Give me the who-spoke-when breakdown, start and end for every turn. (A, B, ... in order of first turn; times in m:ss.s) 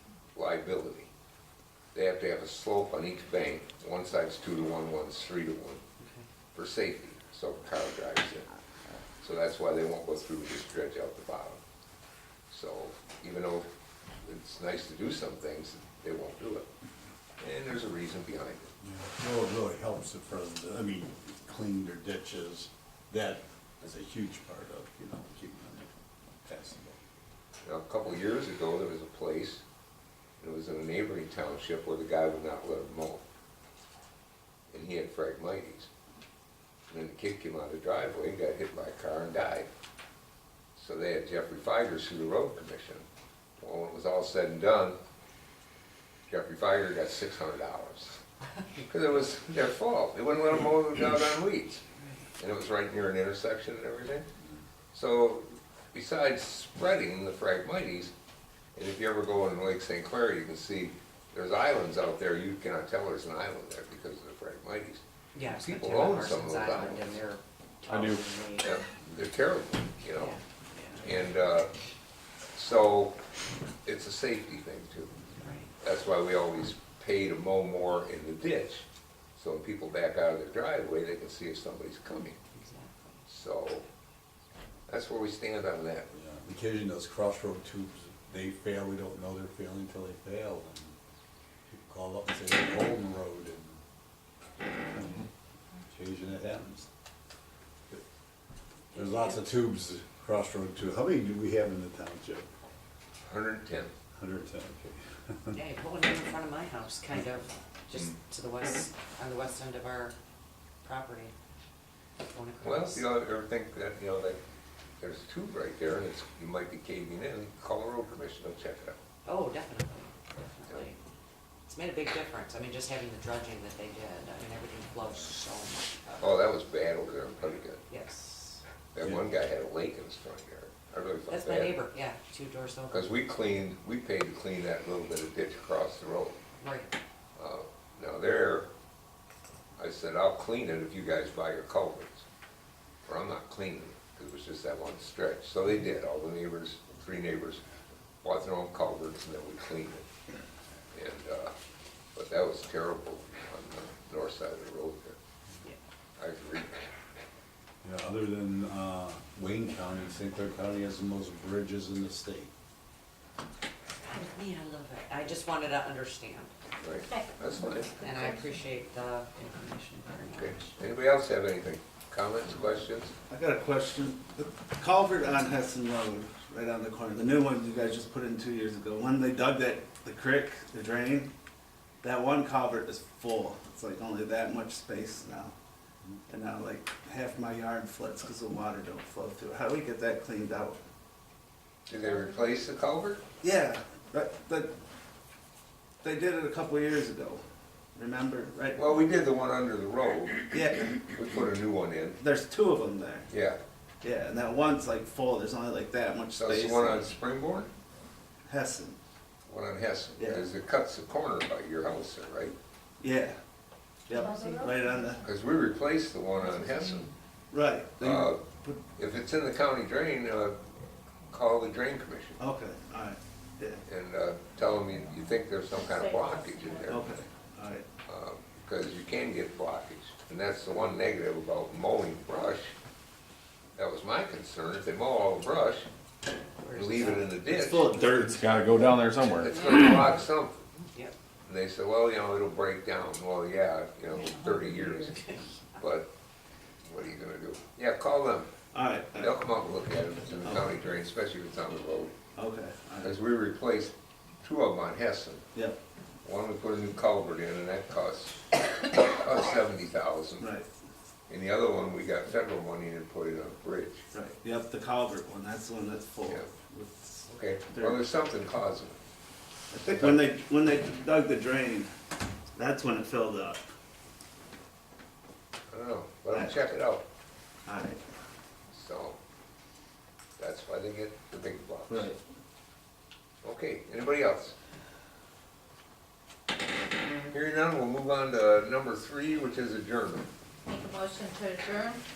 0:00.3-0:01.1 A
0:01.9-0:05.8 A
0:06.0-0:06.3 B
0:06.6-0:08.5 A
0:09.2-0:11.6 A
0:12.5-0:13.7 A
0:14.2-0:16.7 A
0:17.4-0:18.7 A
0:18.8-0:25.9 C
0:26.4-0:27.0 C
0:27.6-0:29.6 A
0:30.4-0:33.2 A
0:34.7-0:35.9 A
0:36.9-0:39.7 A
0:40.8-0:43.0 A
0:43.6-0:45.0 A
0:46.3-0:48.2 A
0:48.8-0:51.8 A
0:52.0-0:52.3 B
0:52.4-0:54.3 A
0:54.9-0:58.1 A
0:58.8-1:07.1 A
1:05.4-1:08.7 B
1:07.9-1:08.3 D
1:08.6-1:10.4 A
1:10.2-1:11.0 B
1:11.0-1:11.7 A
1:12.6-1:13.2 A
1:13.8-1:15.1 A
1:15.4-1:15.7 B
1:15.8-1:22.4 A
1:22.6-1:23.2 B
1:23.3-1:23.8 A
1:24.9-1:26.1 A
1:26.1-1:31.0 C
1:31.7-1:33.8 C
1:34.8-1:35.3 C
1:35.9-1:36.9 C
1:38.9-1:39.4 B
1:38.9-1:42.5 C
1:43.2-1:43.9 A
1:44.2-1:45.6 C
1:45.5-1:50.2 B
1:50.8-1:51.3 B
1:52.2-1:53.1 B
1:52.6-1:54.4 A
1:55.0-1:59.0 A
1:59.2-2:01.0 B
2:01.7-2:06.4 B
2:06.2-2:07.8 A
2:07.9-2:08.6 B
2:08.9-2:11.8 A
2:11.3-2:13.1 B
2:12.9-2:16.4 A
2:16.6-2:16.9 B
2:17.4-2:18.7 A
2:19.8-2:22.3 A
2:23.0-2:27.6 A
2:28.2-2:30.1 A
2:30.9-2:31.5 A
2:32.2-2:35.2 A
2:36.2-2:36.8 A
2:37.8-2:42.5 C
2:44.1-2:46.5 B
2:46.8-2:48.3 A
2:47.1-2:48.4 E
2:48.0-2:50.8 B
2:50.3-2:53.1 A
2:53.3-3:01.3 F
3:02.0-3:05.6 F
3:06.3-3:10.8 F
3:11.9-3:13.2 A
3:13.4-3:14.7 F
3:16.0-3:17.4 F
3:18.0-3:19.0 F
3:18.8-3:22.2 A
3:20.5-3:20.9 F
3:22.2-3:23.3 F
3:23.3-3:23.6 A
3:24.0-3:27.2 F
3:26.3-3:27.7 A
3:28.5-3:29.0 F
3:29.5-3:32.6 A
3:30.2-3:30.6 F
3:33.0-3:33.4 F
3:34.1-3:35.2 F
3:34.1-3:35.2 E
3:35.2-3:37.1 A
3:37.5-3:38.8 F
3:38.0-3:38.4 A
3:39.0-3:40.6 A
3:41.3-3:42.4 A
3:42.4-3:43.8 F
3:43.8-3:47.0 A
3:45.8-3:47.0 E
3:46.9-3:47.8 F
3:48.1-3:52.7 A
3:53.8-3:55.9 A
3:56.6-3:58.0 B
3:56.7-3:58.0 A
3:57.6-3:59.9 D
3:58.2-3:58.4 F
3:59.3-4:00.6 A
3:59.4-4:00.2 B
4:00.8-4:01.2 B
4:01.4-4:05.2 A
4:04.1-4:05.8 B
4:05.8-4:06.1 A
4:06.8-4:08.5 A
4:08.7-4:09.4 F
4:09.2-4:12.1 A
4:10.4-4:10.7 F
4:12.4-4:13.2 F
4:13.0-4:15.5 A
4:16.2-4:20.5 A
4:20.4-4:20.7 F
4:21.3-4:24.0 A
4:24.1-4:28.0 F
4:27.3-4:29.0 A
4:29.7-4:31.9 F
4:29.8-4:30.3 A
4:32.5-4:33.7 F
4:35.7-4:37.0 A
4:36.3-4:36.6 F
4:37.7-4:38.0 F
4:38.7-4:39.2 A
4:40.4-4:42.1 A
4:41.9-4:42.2 F
4:43.4-4:44.6 A
4:47.3-4:50.3 A
4:50.7-4:52.1 E